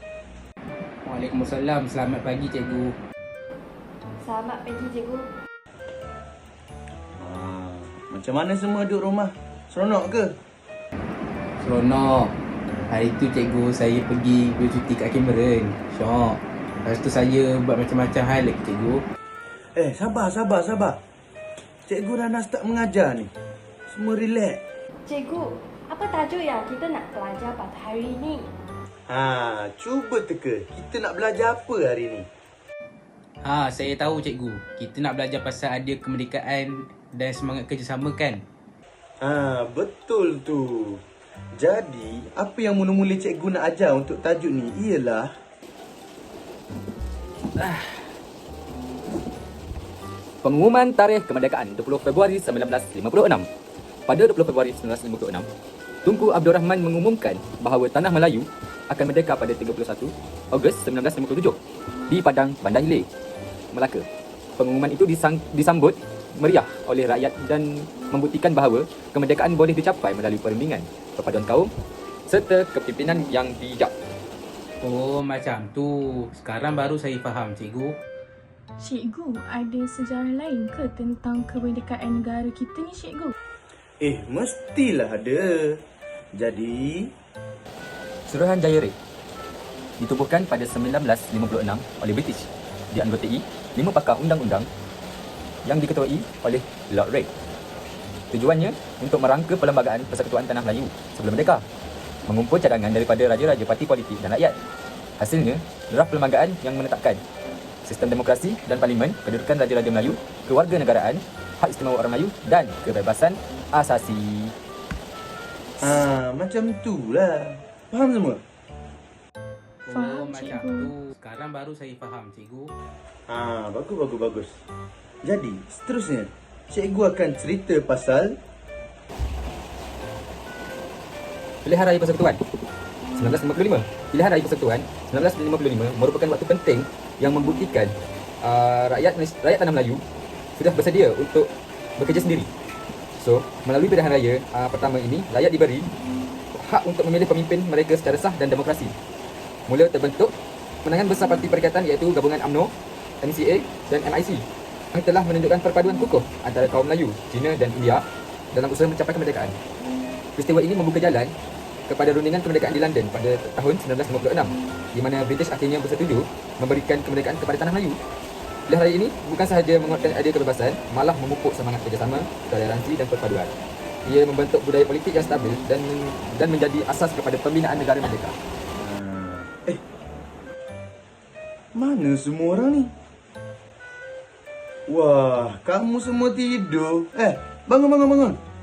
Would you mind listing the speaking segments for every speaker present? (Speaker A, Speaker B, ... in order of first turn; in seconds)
Speaker A: 1.0-2.9, 11.6-12.3, 12.9-19.0, 33.4-38.4, 74.8-77.9, 119.8-122.7
Speaker B: 4.2-5.3, 25.1-28.5
Speaker C: 7.2-10.3, 19.8-21.0, 21.9-23.3, 23.9-24.6, 29.1-32.3, 39.2-41.0, 41.5-45.3, 84.0-85.8, 86.3-87.1, 115.8-118.4, 123.3-124.6, 125.2-128.3, 178.8-179.8, 181.8-182.9, 184.9-188.4
Speaker D: 47.5-48.1, 50.4-53.5, 54.1-55.5, 56.0-63.1, 63.7-64.0, 64.6-71.7, 72.3-73.9, 88.3-89.0, 90.0-94.7, 95.6-97.3, 98.3-101.6, 102.3-104.6, 105.2-107.2, 107.8-114.5, 131.6-132.4, 133.1-140.0, 140.6-142.5, 143.2-145.9, 146.5-148.9, 149.7-159.6, 160.3-161.3, 161.9-168.0, 168.7-173.5, 174.0-178.3
Speaker E: 78.8-83.3, 119.9-120.9